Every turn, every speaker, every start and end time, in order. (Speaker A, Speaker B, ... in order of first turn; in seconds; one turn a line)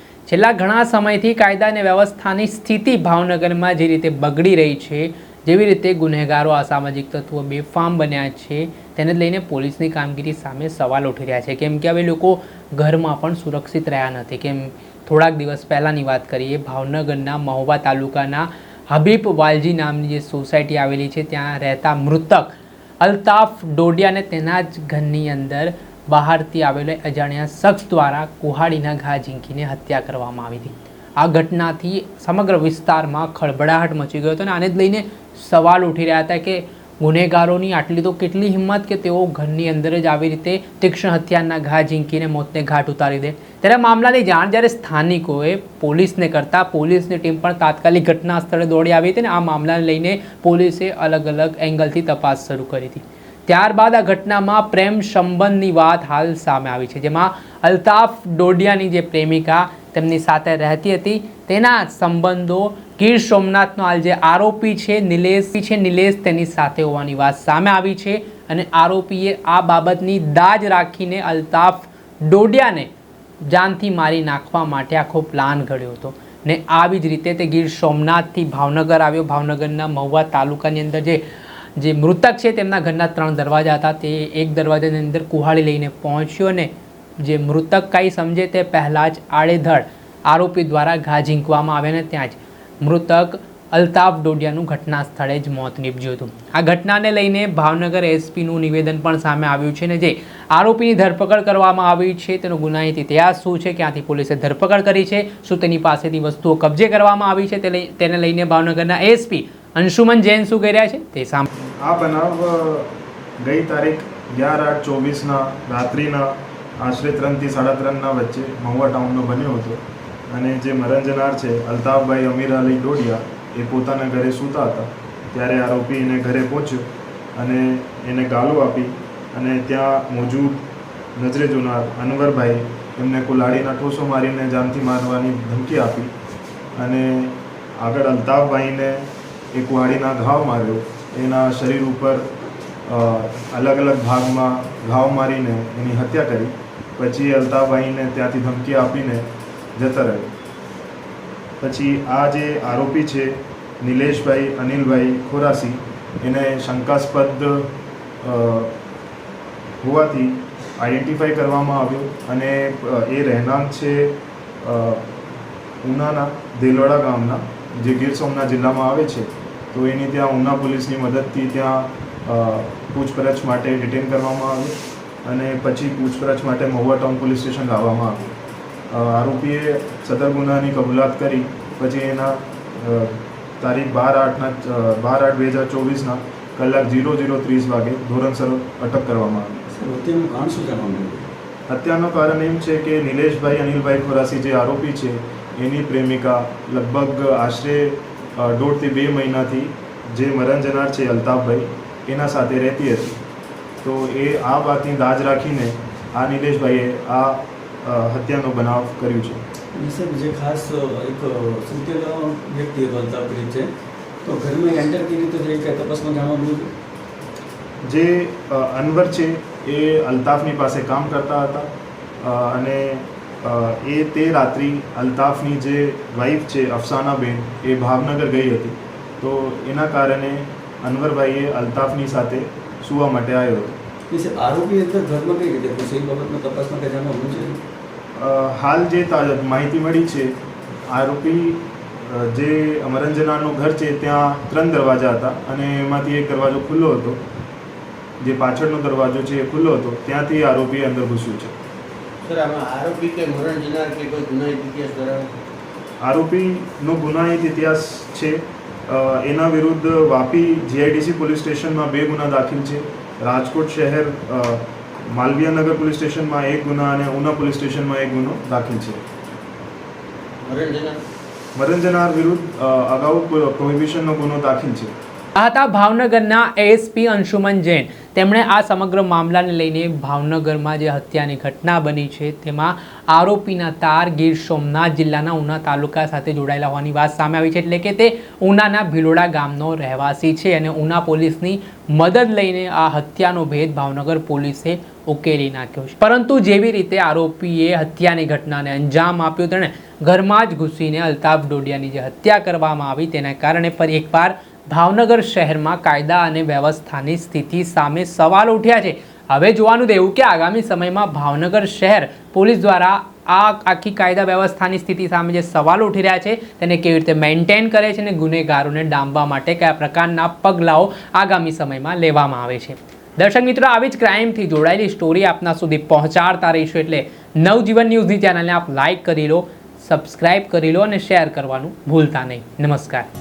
Speaker A: 0.3-72.9
Speaker A: 73.4-81.2
Speaker A: 81.8-111.5
Speaker B: 111.8-112.9
Speaker B: 113.4-136.1
Speaker B: 136.8-142.3
Speaker B: 142.8-150.3
Speaker B: 151.6-157.7
Speaker B: 158.2-158.7
Speaker B: 159.8-165.1
Speaker B: 165.8-178.3
Speaker B: 178.9-189.5
Speaker C: 189.6-191.3
Speaker B: 191.7-203.2
Speaker B: 203.8-209.4
Speaker C: 209.7-213.7
Speaker C: 214.2-216.7
Speaker B: 217.9-233.8
Speaker C: 234.1-237.6
Speaker B: 238.2-240.3
Speaker B: 240.9-247.2
Speaker B: 248.2-251.5
Speaker D: 252.2-255.3
Speaker B: 256.0-269.0
Speaker D: 270.4-271.0
Speaker B: 271.5-274.9
Speaker A: 275.3-333.1